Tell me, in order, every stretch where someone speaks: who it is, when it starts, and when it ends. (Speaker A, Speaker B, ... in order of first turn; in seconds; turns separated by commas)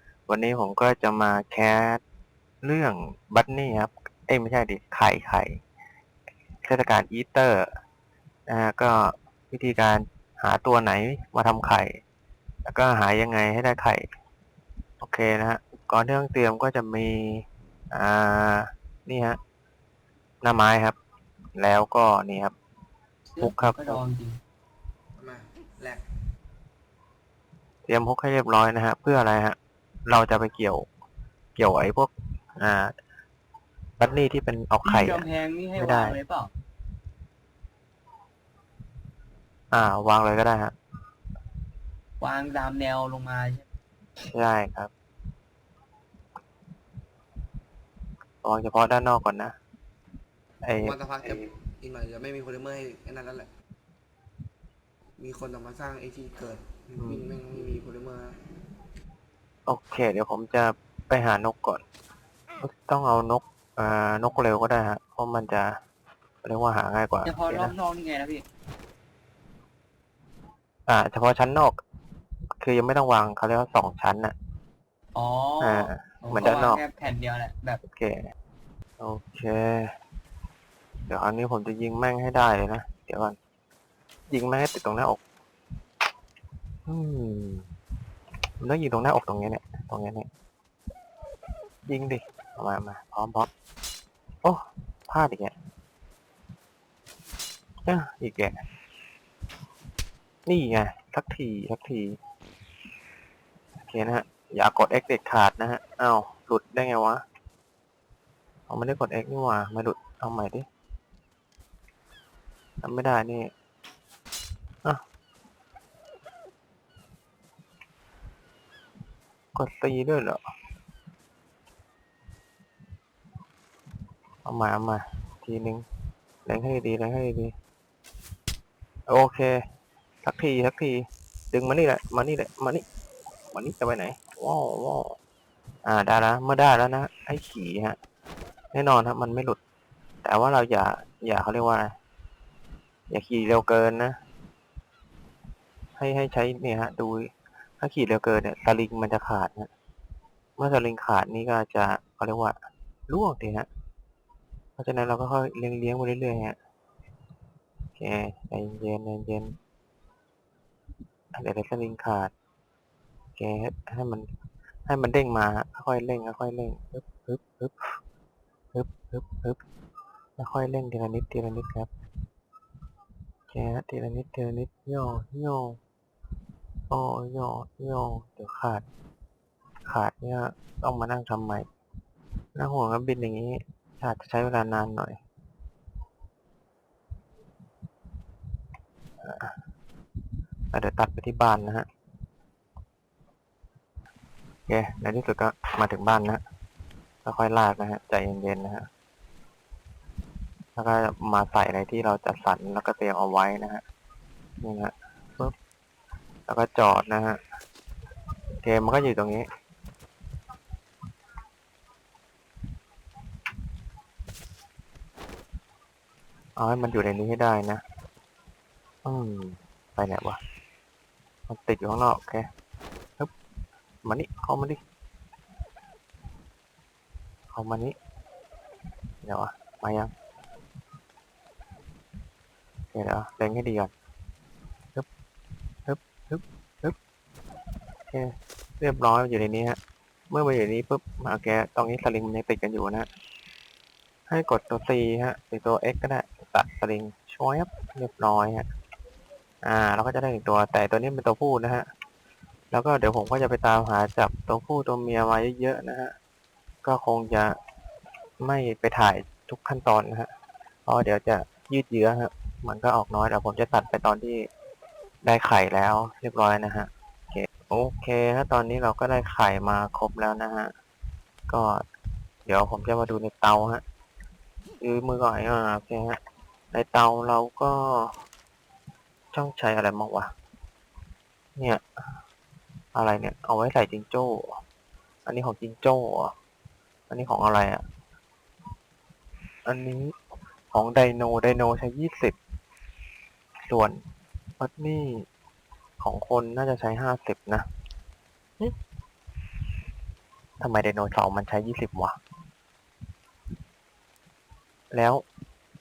Speaker A: 0.3-2.0, Speaker A: 2.6-5.6, Speaker A: 6.7-7.7, Speaker A: 8.5-12.0, Speaker A: 12.7-14.0, Speaker A: 15.0-19.4, Speaker A: 20.4-21.0, Speaker A: 21.6-22.5, Speaker B: 23.4-24.4, Speaker A: 23.4-24.0, Speaker C: 25.2-26.0, Speaker A: 27.9-30.9, Speaker A: 31.6-32.9, Speaker A: 34.0-36.2, Speaker B: 34.8-36.5, Speaker A: 39.7-40.7, Speaker B: 42.2-43.6, Speaker A: 44.3-44.9, Speaker A: 48.4-49.5, Speaker A: 50.6-51.4, Speaker C: 50.8-53.5, Speaker C: 55.2-58.4, Speaker A: 57.0-57.3, Speaker A: 59.7-61.8, Speaker A: 62.6-65.8, Speaker A: 66.4-67.7, Speaker B: 67.2-68.5, Speaker A: 70.9-71.8, Speaker A: 72.6-74.3, Speaker B: 75.2-77.8, Speaker A: 75.6-76.8, Speaker A: 77.9-78.3, Speaker A: 79.0-79.9, Speaker A: 81.1-83.4, Speaker A: 84.3-85.2, Speaker A: 86.9-87.7, Speaker A: 88.6-90.3, Speaker A: 91.9-93.5, Speaker A: 94.4-95.5, Speaker A: 97.9-98.6, Speaker A: 100.5-102.2, Speaker A: 103.8-107.2, Speaker A: 108.7-110.7, Speaker A: 112.8-113.5, Speaker A: 119.5-120.4, Speaker A: 124.5-125.8, Speaker A: 126.5-127.5, Speaker A: 129.1-129.5, Speaker A: 130.2-132.8, Speaker A: 133.5-135.2, Speaker A: 135.8-138.0, Speaker A: 138.7-139.6, Speaker A: 140.2-141.9, Speaker A: 143.1-144.2, Speaker A: 146.0-149.7, Speaker A: 150.6-152.6, Speaker A: 153.1-153.7, Speaker A: 154.8-156.6, Speaker A: 158.0-159.6, Speaker A: 161.3-162.3, Speaker A: 163.4-164.3, Speaker A: 164.9-168.0, Speaker A: 168.7-169.6, Speaker A: 170.4-171.9, Speaker A: 173.5-175.8, Speaker A: 176.9-178.8, Speaker A: 179.9-181.7, Speaker A: 182.6-185.2, Speaker A: 189.2-189.5, Speaker A: 190.7-191.9, Speaker A: 194.7-196.4, Speaker A: 197.2-198.9, Speaker A: 200.8-203.8, Speaker A: 204.6-205.5, Speaker A: 206.5-207.4, Speaker A: 208.6-209.5, Speaker A: 216.6-217.8, Speaker A: 219.1-220.4, Speaker A: 221.5-222.4, Speaker A: 224.1-224.8, Speaker A: 227.5-228.0, Speaker A: 229.2-230.1, Speaker A: 232.9-233.9, Speaker A: 235.9-237.0, Speaker A: 238.1-239.8, Speaker A: 240.3-243.1, Speaker A: 244.3-248.7, Speaker A: 249.6-251.9, Speaker A: 252.7-256.1, Speaker A: 256.8-257.6, Speaker A: 258.4-260.3, Speaker A: 260.9-264.5, Speaker A: 265.2-270.7, Speaker A: 271.5-271.8, Speaker A: 272.5-273.8, Speaker A: 274.8-276.2, Speaker A: 276.7-278.1, Speaker A: 279.3-280.3, Speaker A: 281.6-281.8, Speaker A: 282.9-284.6, Speaker A: 285.3-286.3, Speaker A: 287.1-287.8, Speaker A: 289.7-290.1, Speaker A: 290.7-292.4, Speaker A: 293.7-294.0, Speaker A: 294.6-295.3, Speaker A: 296.0-297.6, Speaker A: 300.6-302.2, Speaker A: 304.9-305.2